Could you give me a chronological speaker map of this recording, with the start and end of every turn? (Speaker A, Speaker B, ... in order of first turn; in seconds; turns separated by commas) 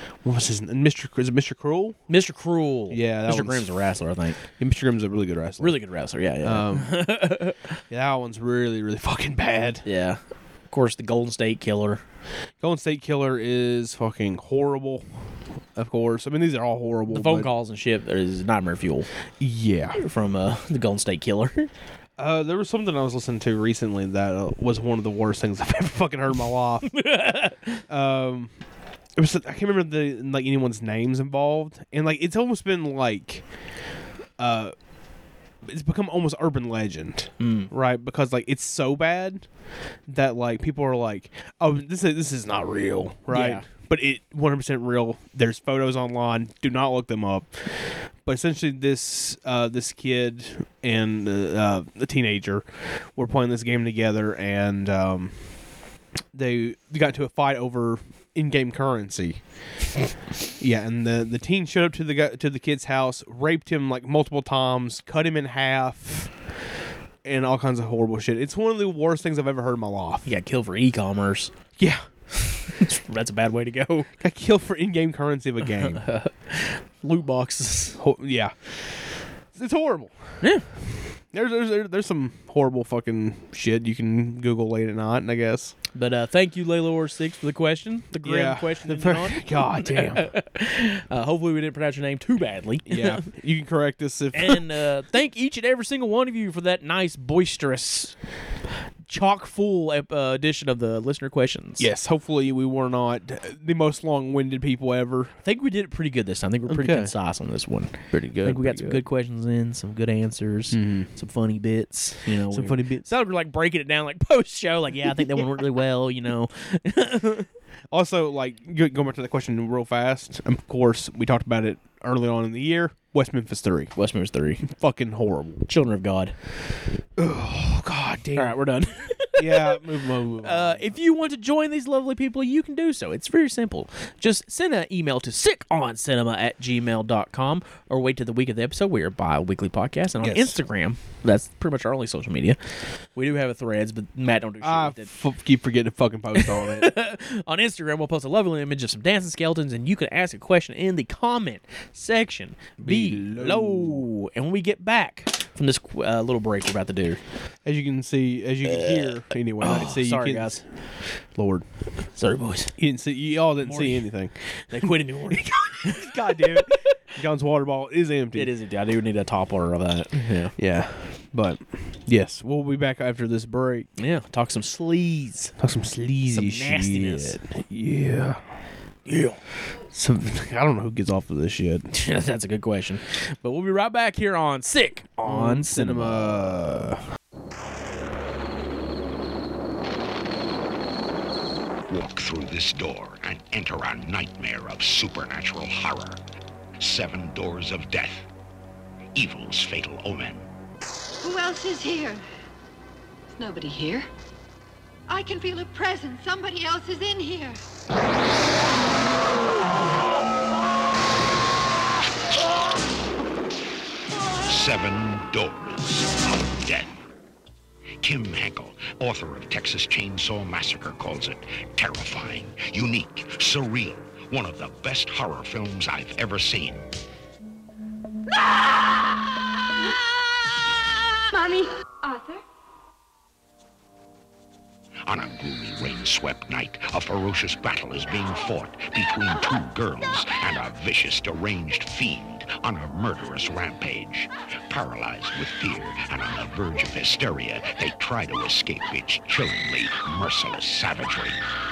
Speaker A: 0.2-2.0, Speaker B: 2.1-4.4, Speaker A: 2.9-3.7, Speaker A: 4.6-5.8, Speaker B: 5.6-7.6, Speaker A: 6.4-7.0, Speaker A: 7.9-9.8, Speaker B: 9.8-12.0, Speaker A: 12.6-15.1, Speaker A: 15.8-17.5, Speaker B: 17.1-19.1, Speaker A: 19.4-20.0, Speaker B: 19.9-21.7, Speaker A: 22.2-27.1, Speaker B: 26.9-27.8, Speaker A: 27.9-28.5, Speaker A: 29.2-33.4, Speaker A: 34.4-34.7, Speaker A: 35.6-39.5, Speaker B: 37.4-37.7, Speaker A: 40.1-55.4, Speaker B: 43.3-43.6, Speaker A: 56.3-59.4, Speaker A: 60.6-66.4, Speaker A: 67.2-70.3, Speaker B: 70.2-71.5, Speaker A: 71.8-72.0, Speaker B: 72.4-74.1, Speaker A: 74.2-76.0, Speaker B: 75.6-78.0, Speaker A: 78.0-80.1, Speaker A: 81.3-85.7, Speaker B: 85.9-93.2, Speaker A: 88.2-90.3, Speaker A: 92.9-94.6, Speaker B: 94.3-98.2, Speaker B: 99.1-101.9, Speaker A: 101.8-105.3, Speaker B: 105.4-117.5, Speaker A: 106.7-107.1, Speaker A: 108.1-109.0, Speaker A: 110.7-111.1, Speaker A: 112.5-113.1, Speaker A: 117.9-123.9, Speaker B: 124.0-124.6, Speaker A: 124.6-125.6, Speaker B: 125.7-126.3, Speaker A: 127.2-128.6, Speaker B: 128.3-129.8, Speaker A: 129.3-130.9, Speaker B: 130.4-142.6, Speaker A: 140.2-140.6, Speaker B: 143.1-145.1, Speaker A: 144.6-146.9, Speaker B: 146.3-157.2, Speaker A: 152.8-154.1, Speaker A: 157.6-160.6, Speaker B: 158.7-160.6, Speaker A: 161.3-161.6, Speaker B: 162.2-162.7, Speaker A: 162.8-168.5, Speaker B: 163.6-164.1, Speaker B: 164.7-166.8, Speaker B: 168.3-170.5, Speaker A: 170.6-173.9, Speaker B: 174.0-175.5, Speaker A: 175.6-178.4, Speaker B: 176.3-177.4, Speaker B: 179.1-179.4, Speaker A: 179.9-181.9, Speaker B: 181.9-186.9, Speaker A: 185.2-187.0, Speaker C: 191.9-196.2, Speaker C: 196.8-198.3, Speaker C: 199.1-200.5, Speaker D: 201.2-202.2, Speaker D: 203.4-204.1, Speaker D: 205.1-207.6, Speaker C: 214.4-217.0, Speaker C: 218.0-226.8, Speaker D: 231.3-232.4, Speaker C: 235.1-251.4